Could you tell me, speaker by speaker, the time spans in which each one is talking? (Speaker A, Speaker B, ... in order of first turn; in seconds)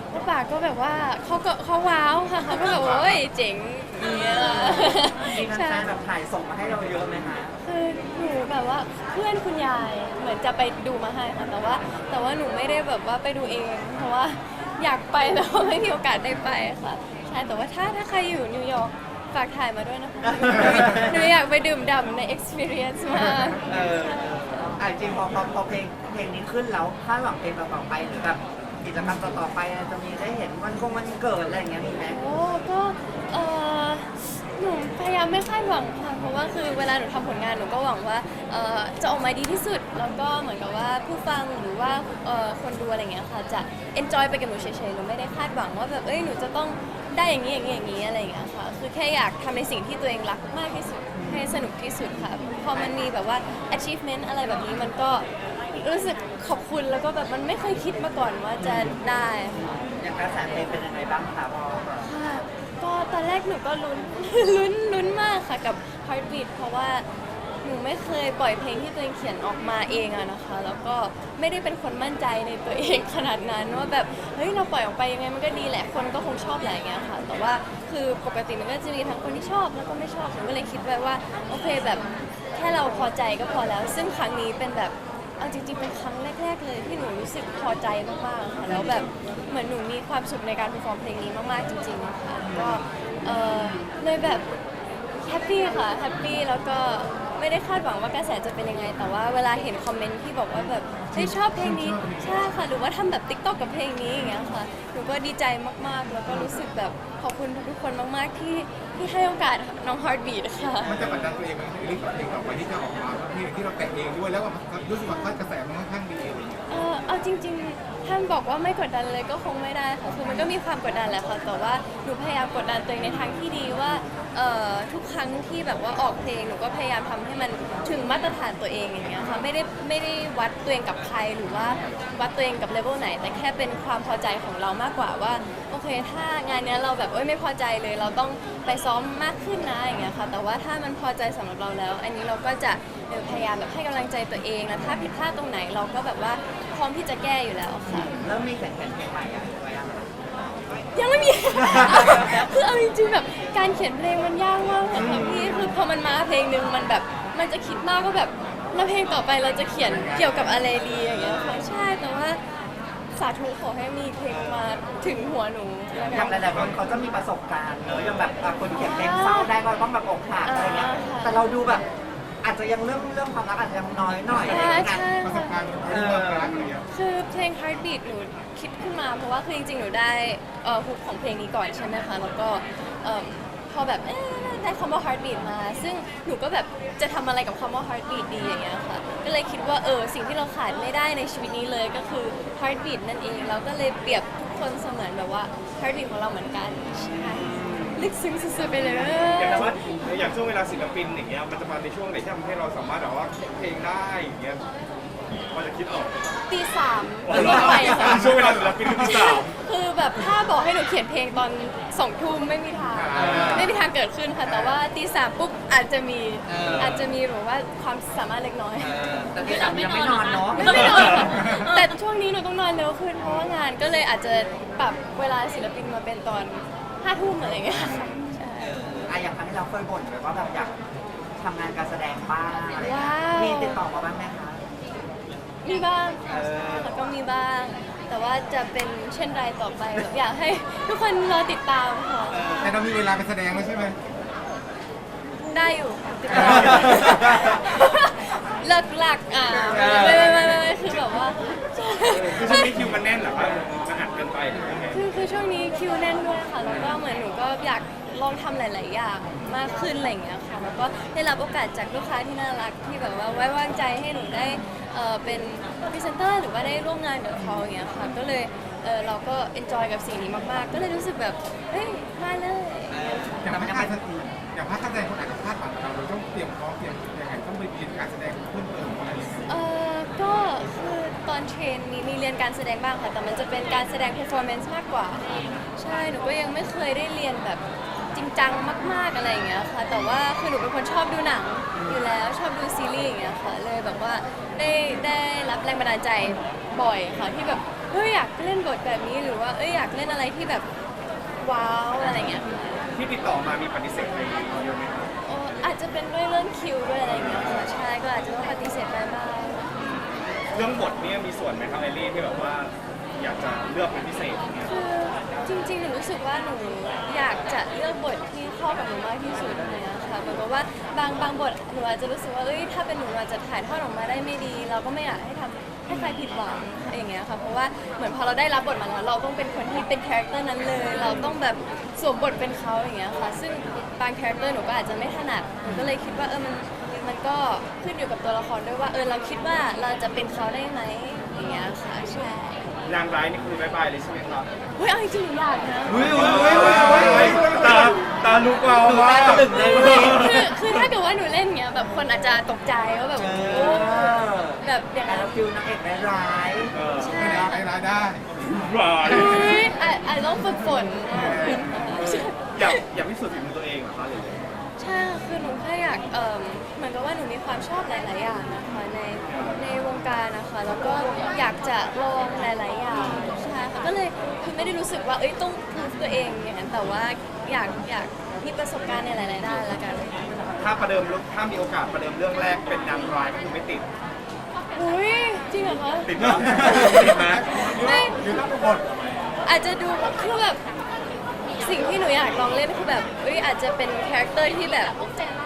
Speaker A: 0.1-5.9, 7.6-24.8, 32.0-59.7, 62.0-67.1, 67.6-94.5, 95.2-110.9, 115.1-115.4, 116.7-148.2, 150.9-162.4, 163.1-166.6, 168.7-169.5, 170.4-171.4, 174.5-175.6, 176.9-199.7, 206.5-228.8, 232.8-233.8, 235.6-242.6, 245.3-252.8, 254.9-273.4, 279.5-300.7, 301.4-302.9, 305.2-309.7, 314.7-342.7, 344.8-346.5, 349.5-355.5, 357.0-357.6, 359.0-362.8, 364.8-380.3, 384.7-388.5, 389.4-390.6, 391.6-395.1
Speaker B: 2.7-3.2, 101.1-102.6, 110.8-116.7, 159.9-160.6, 174.5-176.9, 207.9-209.4, 212.8-213.7, 221.4-221.7, 242.6-244.0, 273.4-279.6, 346.3-348.0, 357.1-359.6, 361.1-362.1, 386.5-389.4
Speaker C: 4.0-7.5, 20.2-21.2, 23.7-32.2, 51.1-51.5, 52.7-53.0, 58.6-59.0, 59.5-62.1, 88.7-89.1, 92.4-92.9, 93.6-93.9, 106.3-106.6, 110.8-111.4, 123.0-123.4, 147.9-150.6, 151.6-152.5, 154.9-155.8, 160.9-161.7, 164.3-164.6, 166.1-171.9, 172.4-175.1, 175.9-176.7, 197.1-198.1, 198.6-200.2, 207.3-207.9, 213.2-213.7, 214.4-214.8, 216.5-217.1, 218.8-221.4, 228.6-230.8, 231.4-234.6, 236.3-237.0, 242.3-242.9, 246.3-247.6, 249.7-250.6, 267.4-267.7, 272.9-274.4, 291.7-292.0, 335.7-335.9, 345.9-347.9, 348.7-350.4, 353.2-357.5
Speaker D: 165.9-166.8, 167.8-168.3, 199.3-204.7, 205.4-206.4, 207.3-209.5, 213.2-213.7, 220.6-221.3, 227.7-228.2, 246.4-246.9, 249.7-251.1, 252.2-255.0, 302.9-305.1, 307.1-307.7, 309.8-314.7, 325.9-326.2, 331.0-331.3, 342.9-344.5, 346.0-350.8, 356.7-357.2, 358.4-359.7, 361.2-364.5, 369.3-369.6, 372.9-373.3, 380.6-383.9, 386.0-387.5